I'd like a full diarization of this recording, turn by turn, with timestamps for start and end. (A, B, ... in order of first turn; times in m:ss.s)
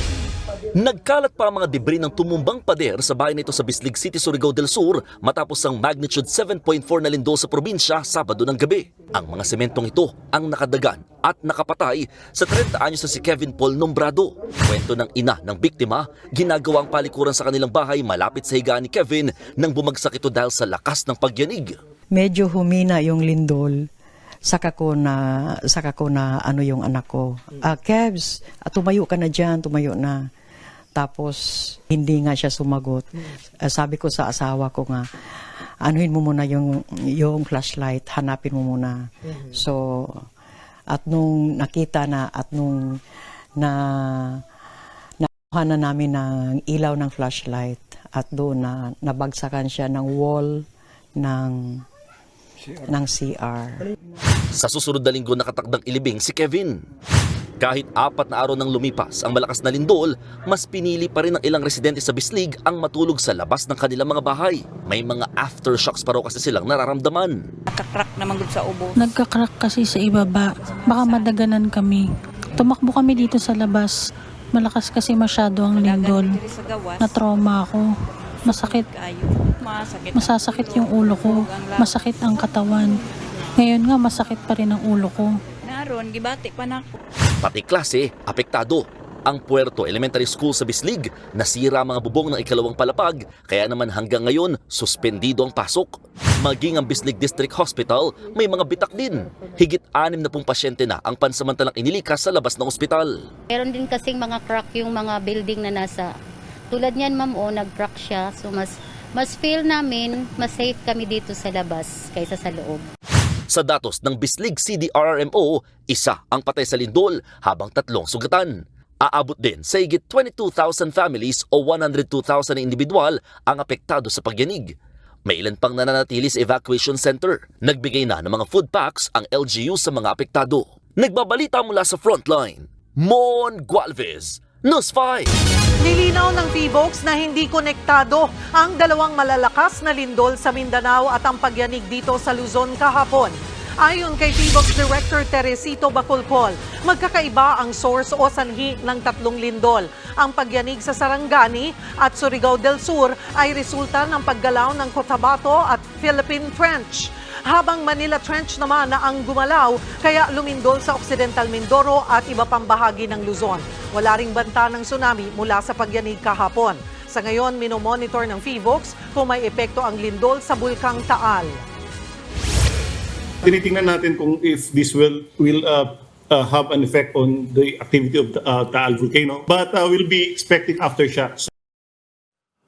0:00.8-0:21.8 A
0:22.2-0:23.8 B
0:24.5-0:30.2 B
0:31.0-0:33.0 B
0:33.7-0:35.0 B
0:35.8-0:40.2 B
0:40.9-0:43.0 B
0:43.6-0:44.4 B
0:45.2-0:50.6 B
0:51.2-0:51.8 B
0:52.9-0:53.8 B
0:54.5-0:56.8 A
0:57.6-1:07.4 A
1:07.7-1:09.0 C
1:09.0-1:14.0 D
1:10.6-1:11.3 C
1:14.5-1:16.4 D
1:15.7-1:17.1 C
1:17.0-1:17.9 D
1:18.4-1:18.9 D
1:18.4-1:22.0 C
1:20.1-1:23.0 D
1:23.6-1:25.4 D
1:25.7-1:26.9 C
1:27.4-1:43.1 A
1:43.5-1:46.1 E
1:46.7-1:52.8 E
1:53.5-2:04.7 A
2:05.3-2:15.3 A
2:15.8-2:51.6 F
2:53.4-3:01.5 G